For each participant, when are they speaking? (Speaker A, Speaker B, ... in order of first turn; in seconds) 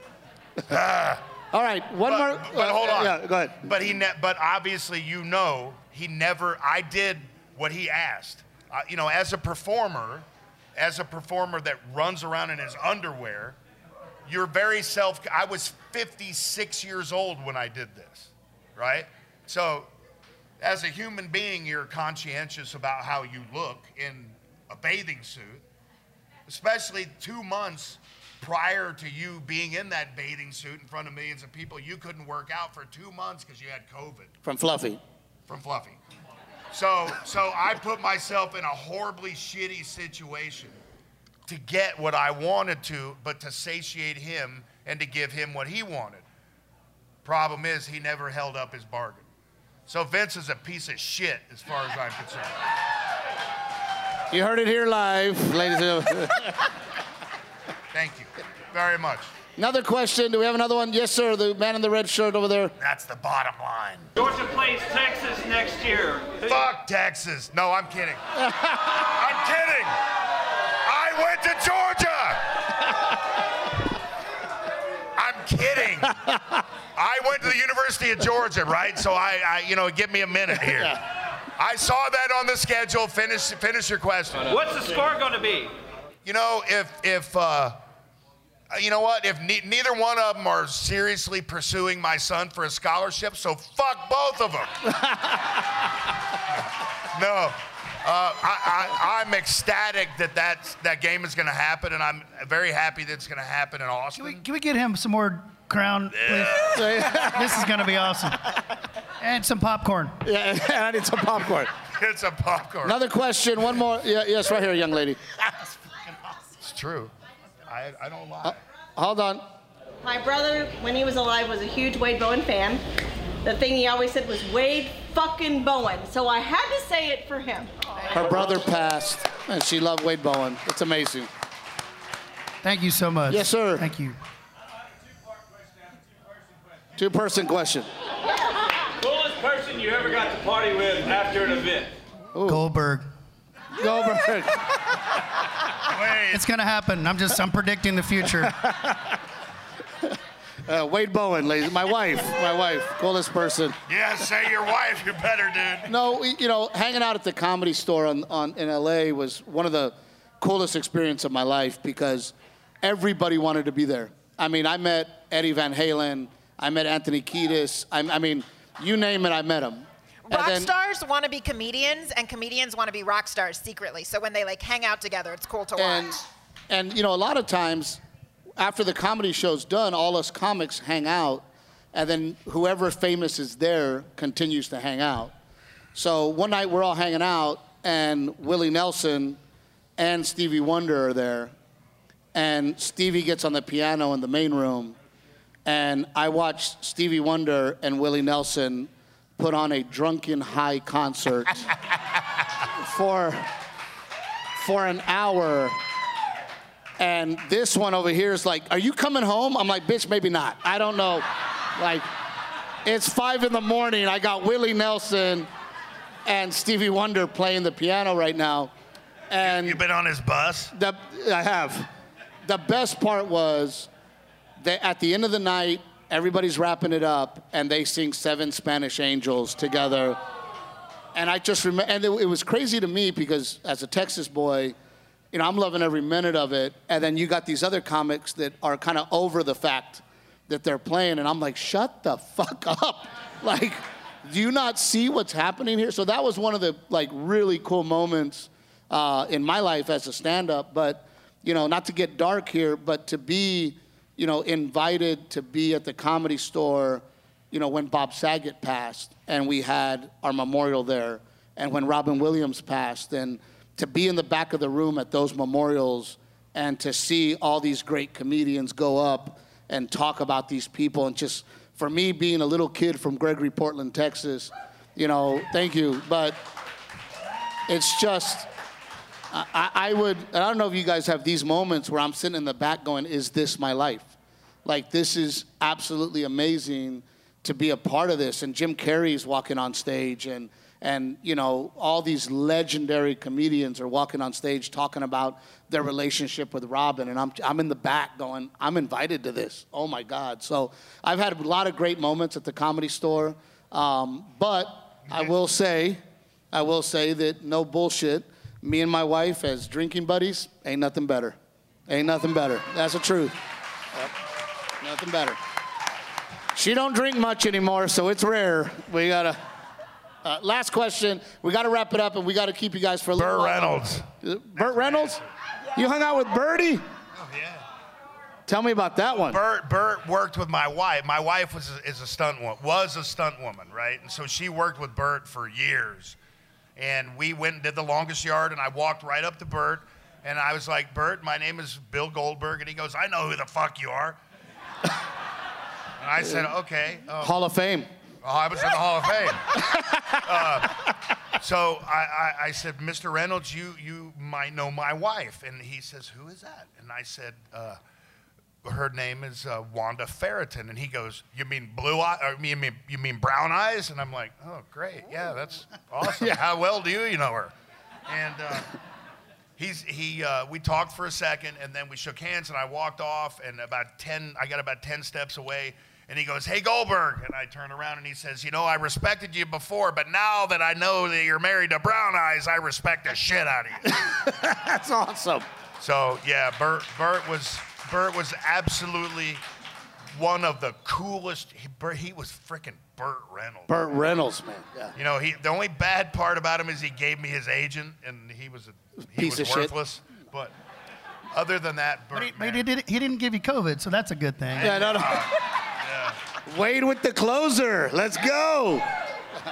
Speaker A: 0.7-1.2, 2.0-13.6, 14.2-19.9, 20.6-25.6, 26.5-34.3, 35.5-36.0, 36.7-40.8, 41.5-46.2, 47.2-49.2, 49.9-52.5, 57.9-59.3, 62.8-64.1, 66.4-68.2, 68.9-70.0, 70.8-72.7, 75.2-76.2, 76.9-81.0, 81.5-84.5, 86.2-87.8, 88.7-94.8, 97.1-104.4, 106.1-107.1, 111.8-113.0, 116.6-117.1, 117.7-118.6, 145.8-146.4, 153.9-155.9, 219.4-220.7, 323.1-325.3, 327.1-327.6, 329.3-336.2, 336.8-344.2, 346.0-347.4, 348.2-357.8, 358.6-367.5, 368.1-368.8, 369.6-384.1, 385.8-389.4, 390.1-393.8, 394.9-400.5, 401.3-402.6, 404.5-406.2
Speaker B: 1.5-3.6, 34.4-35.0, 54.3-56.7, 59.6-62.7, 68.4-69.0, 76.1-76.6, 80.6-81.0, 95.0-95.4, 106.7-107.5, 110.2-111.7, 112.8-115.3, 118.4-119.4, 128.1-131.3, 133.3-133.8, 137.0-137.9, 142.3-142.6, 143.7-145.0, 148.5-149.2, 150.6-153.8, 155.9-170.7, 175.8-178.0, 178.6-185.3, 185.9-189.4, 190.0-191.5, 192.3-195.0, 195.7-201.7, 202.7-203.5, 204.6-205.8, 207.0-211.2, 211.8-212.1, 212.8-215.5, 216.2-218.7, 219.3-219.8, 220.7-221.9, 222.4-223.9, 224.6-230.2, 231.1-234.7, 235.3-276.4, 277.7-278.5, 279.3-284.1, 284.6-306.0, 306.5-311.4, 311.9-313.4, 314.8-315.4, 316.5-319.4, 320.2-325.2, 325.7-326.8, 328.5-329.4, 347.2-347.9, 349.8-350.1, 383.9-385.5, 393.7-394.9, 399.1-399.7, 404.6-405.4, 406.5-408.9
Speaker C: 64.2-66.4, 84.5-85.7, 139.0-141.9
Speaker D: 104.2-108.5, 109.2-110.2, 132.6-134.2, 142.5-143.0, 146.3-148.6, 402.1-404.8
Speaker E: 120.0-122.8, 123.4-127.8
Speaker F: 170.3-176.2